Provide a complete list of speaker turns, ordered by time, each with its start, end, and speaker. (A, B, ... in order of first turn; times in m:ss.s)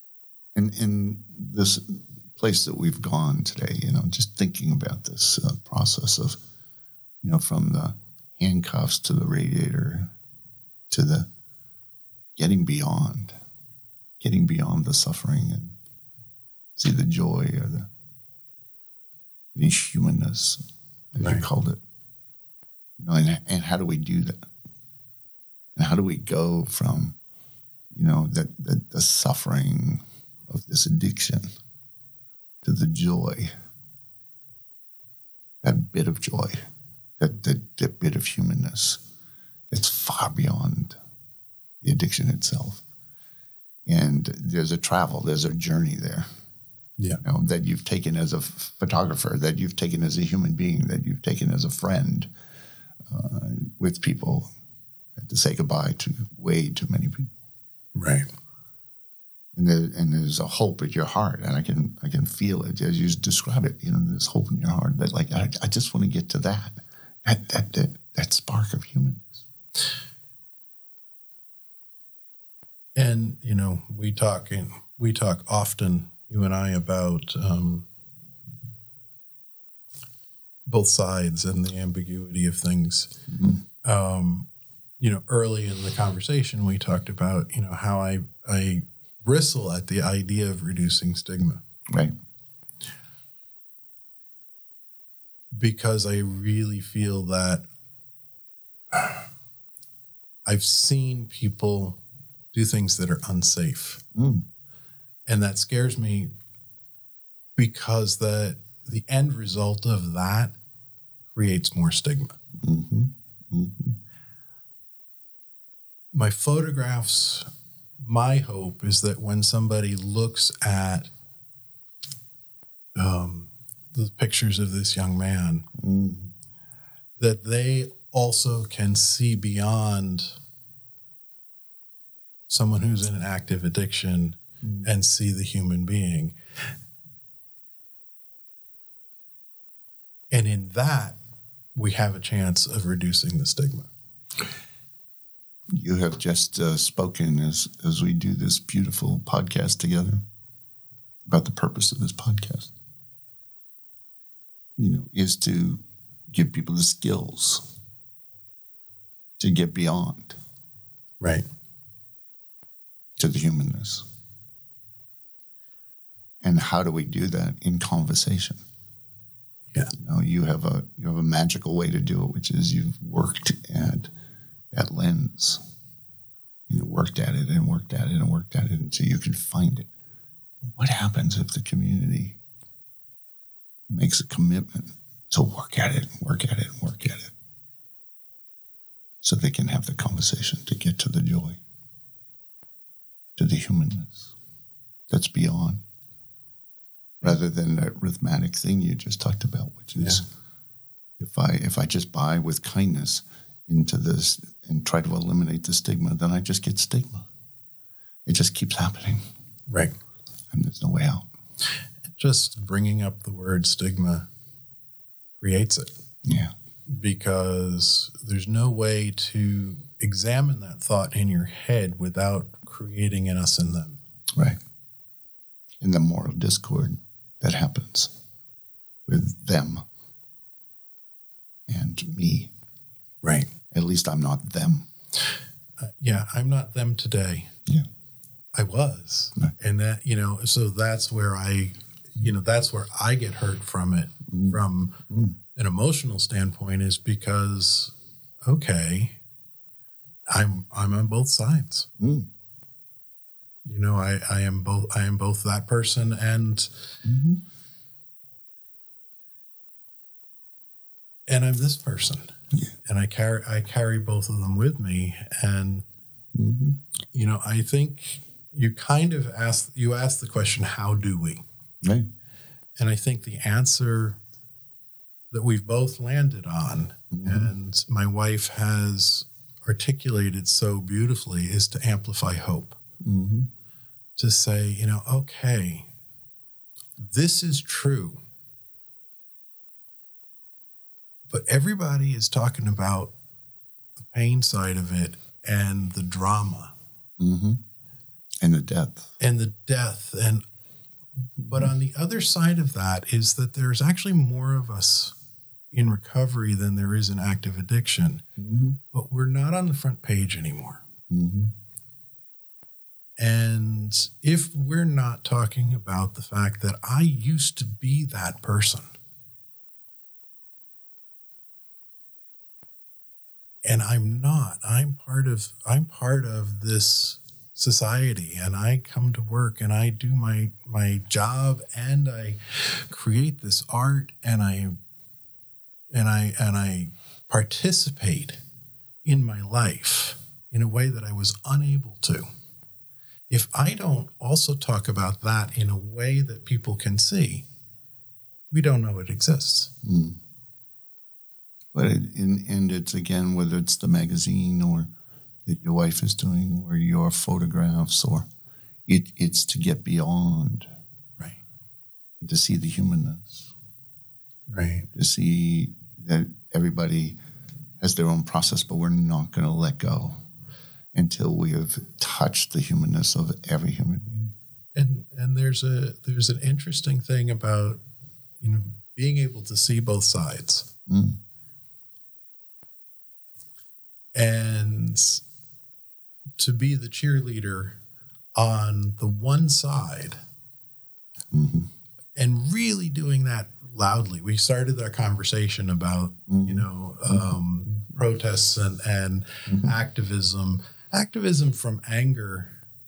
0:00.6-0:06.4 A
0:07.2-0:10.1 A
0:10.9-0:11.3 A
0:12.4-0:13.4 A
0:14.2-0:15.8 A
0:16.8-0:17.9 A
0:19.6-0:20.6 A
0:21.1-0:21.8 A
0:21.2-0:21.4 B
0:23.0-0:24.5 A
0:25.8-0:27.2 A
0:27.9-0:31.5 A
0:32.6-0:33.5 A
0:35.6-0:36.6 A
0:37.2-0:39.0 A
0:39.7-0:41.0 A
0:41.8-0:42.8 A
0:43.9-0:46.3 A
0:47.2-0:52.3 A
0:53.1-0:54.5 A
0:55.2-0:57.3 A
0:58.0-0:58.3 B
0:59.6-1:09.4 A
1:13.0-1:17.9 B
1:20.7-1:23.1 B
1:23.3-1:23.6 A
1:23.8-1:24.5 B
1:25.0-1:31.6 B
1:31.9-1:32.2 A
1:35.5-1:37.6 B
1:40.5-1:42.0 B
1:42.5-1:44.0 B
1:44.2-1:44.5 A
1:45.3-1:46.3 B
1:47.6-1:50.5 B
1:51.3-1:52.4 B
1:52.6-1:54.0 A
1:56.1-1:57.5 B
1:58.0-2:01.1 B
2:03.0-2:05.7 B
2:05.8-2:06.3 A
2:07.2-2:10.3 B
2:12.5-2:16.4 B
2:20.3-2:21.2 B
2:21.8-2:23.9 B
2:25.8-2:30.2 A
2:31.3-2:32.7 A
2:34.8-2:37.7 A
2:39.4-2:40.4 A
2:43.2-2:44.0 A
2:46.4-2:48.6 A
2:49.9-2:54.1 A
2:54.7-2:55.6 A
2:56.7-2:59.9 A
3:00.6-3:02.4 A
3:03.9-3:07.3 A
3:09.2-3:11.6 A
3:13.4-3:14.3 A
3:15.1-3:15.8 A
3:17.2-3:20.2 A
3:21.2-3:27.3 A
3:28.3-3:29.2 A
3:29.7-3:30.0 B
3:30.5-3:31.3 A
3:32.2-3:34.3 B
3:35.4-3:35.9 B
3:36.2-3:36.5 A
3:36.9-3:44.0 B
3:45.8-3:48.1 A
3:49.1-3:49.8 A
3:51.7-3:52.5 A
3:53.2-3:53.5 B
3:53.7-3:54.9 A
3:55.8-3:57.5 B
3:58.6-4:05.0 B
4:04.3-4:04.6 A
4:05.1-4:05.4 A
4:05.6-4:08.0 B
4:08.5-4:09.2 B
4:10.3-4:11.9 B
4:12.0-4:12.3 A
4:13.6-4:16.7 B
4:17.0-4:17.4 A
4:21.3-4:22.3 B
4:22.8-4:25.8 B
4:26.3-4:26.8 A
4:27.1-4:31.4 B
4:31.8-4:32.1 A
4:32.8-4:34.2 B
4:35.3-4:42.8 B
4:37.1-4:37.5 A
4:43.0-4:43.5 A
4:44.2-4:45.9 B
4:47.0-4:48.2 B
4:51.3-4:53.1 B
4:54.0-4:56.7 B
4:57.2-4:57.6 A
4:58.4-4:59.1 A
4:59.2-5:00.4 B
5:01.4-5:01.7 A
5:01.5-5:05.2 B
5:05.7-5:08.2 B
5:08.4-5:08.8 A
5:08.9-5:10.8 B
5:11.1-5:11.5 A
5:13.2-5:18.8 B
5:23.6-5:34.8 B
5:35.9-5:38.4 B
5:39.0-5:42.3 B
5:43.3-5:47.5 B
5:48.5-5:49.7 B
5:49.8-5:50.2 A
5:51.7-5:54.9 A
5:55.5-5:58.3 A
5:58.9-6:00.7 A
6:02.2-6:03.5 A
6:04.5-6:04.9 B
6:04.9-6:07.2 A
6:07.8-6:10.2 A
6:10.9-6:14.3 A
6:14.8-6:17.8 B
6:18.4-6:20.7 B
6:20.9-6:21.2 A
6:24.2-6:25.2 B
6:26.4-6:27.8 B
6:28.4-6:30.2 B
6:31.3-6:31.7 A
6:32.2-6:42.6 B
6:36.3-6:37.8 A
6:39.5-6:39.7 A